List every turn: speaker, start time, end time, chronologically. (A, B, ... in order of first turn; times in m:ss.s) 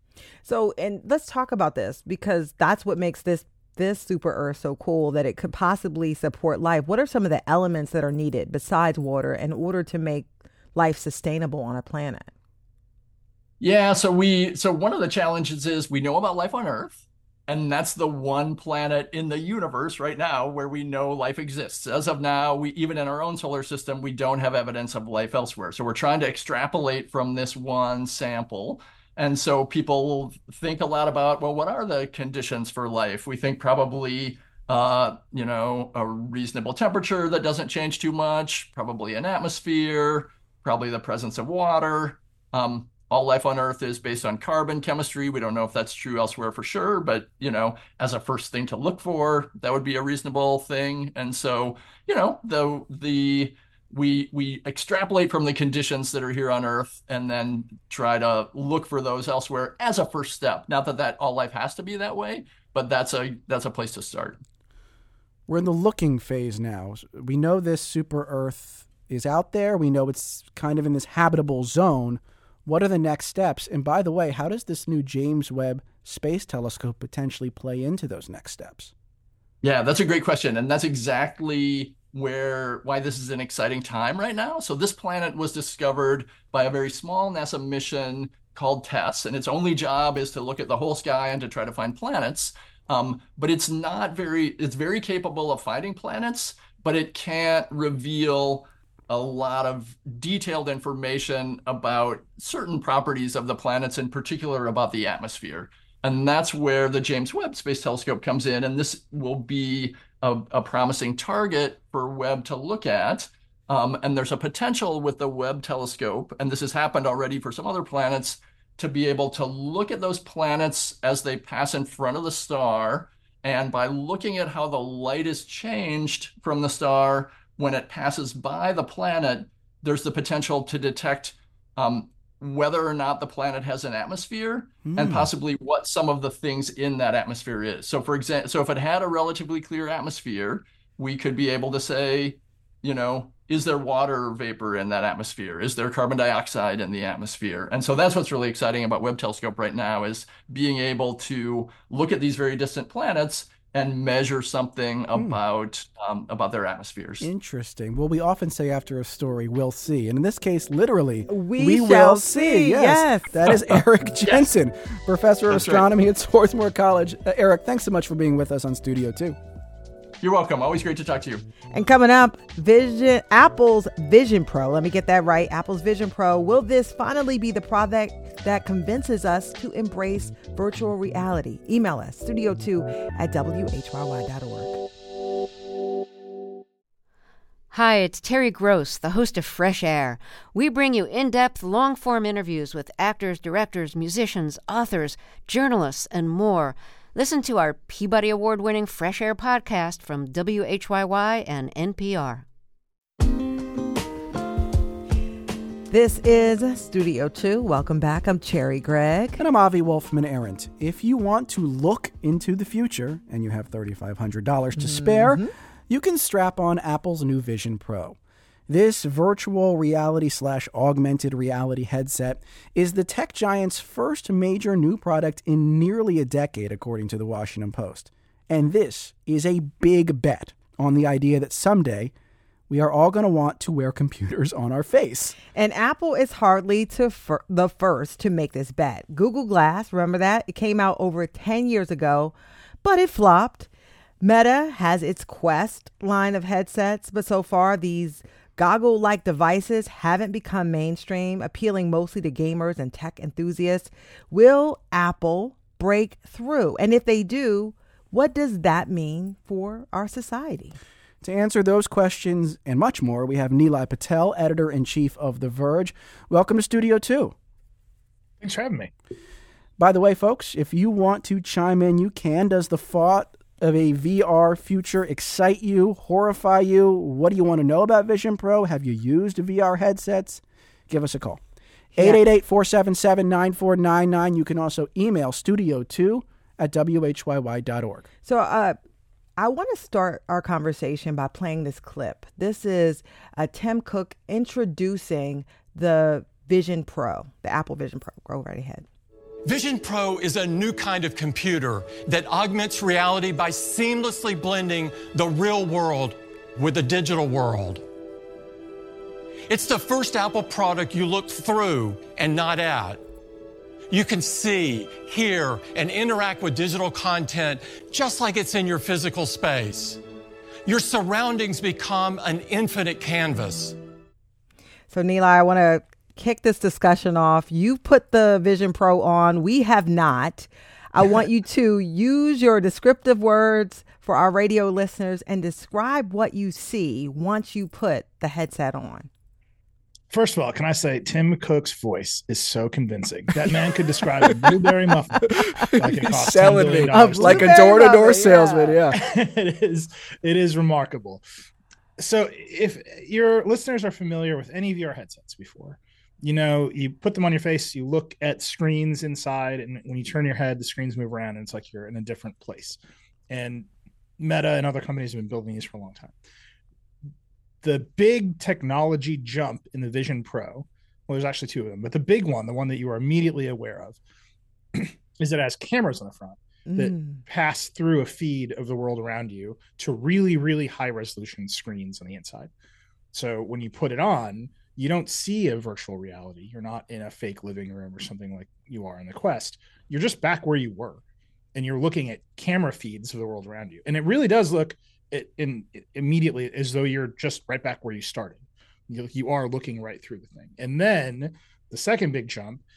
0:00.4-0:12.3 A
0:13.6-1:04.4 B
1:05.5-1:18.9 C
1:19.6-2:37.3 B
2:14.8-2:15.3 C
2:37.2-2:49.4 C
2:41.3-2:43.3 A
2:44.2-2:44.5 B
2:45.5-2:45.8 B
2:50.2-2:51.4 B
2:51.7-3:04.8 A
3:07.7-3:22.4 D
3:25.9-3:29.4 A
3:29.4-3:38.2 C
3:34.8-3:35.5 A
3:38.7-3:52.1 C
3:52.7-3:55.4 C
3:55.5-4:03.7 A
4:04.2-4:20.8 A
4:21.2-4:27.3 C
4:28.4-4:28.9 E
4:29.8-4:41.4 C
4:41.9-4:48.1 C
4:42.0-4:42.2 A
4:48.2-4:48.8 A
4:49.4-4:58.8 A
4:59.4-5:07.8 F
5:09.5-5:13.0 F
5:13.9-5:20.0 F
5:20.6-5:23.7 F
5:24.9-5:39.1 A
5:40.1-5:47.6 E
5:43.3-5:43.6 C
5:44.2-5:44.7 C
5:45.3-5:49.0 C
5:46.9-5:48.8 A
5:48.9-5:51.2 E
5:52.0-6:02.8 E
6:03.3-6:03.7 E
6:04.2-6:06.1 E
6:07.6-6:14.0 E
6:14.7-6:22.5 E
6:16.7-6:17.2 A
6:23.1-6:31.0 E
6:31.5-6:42.6 E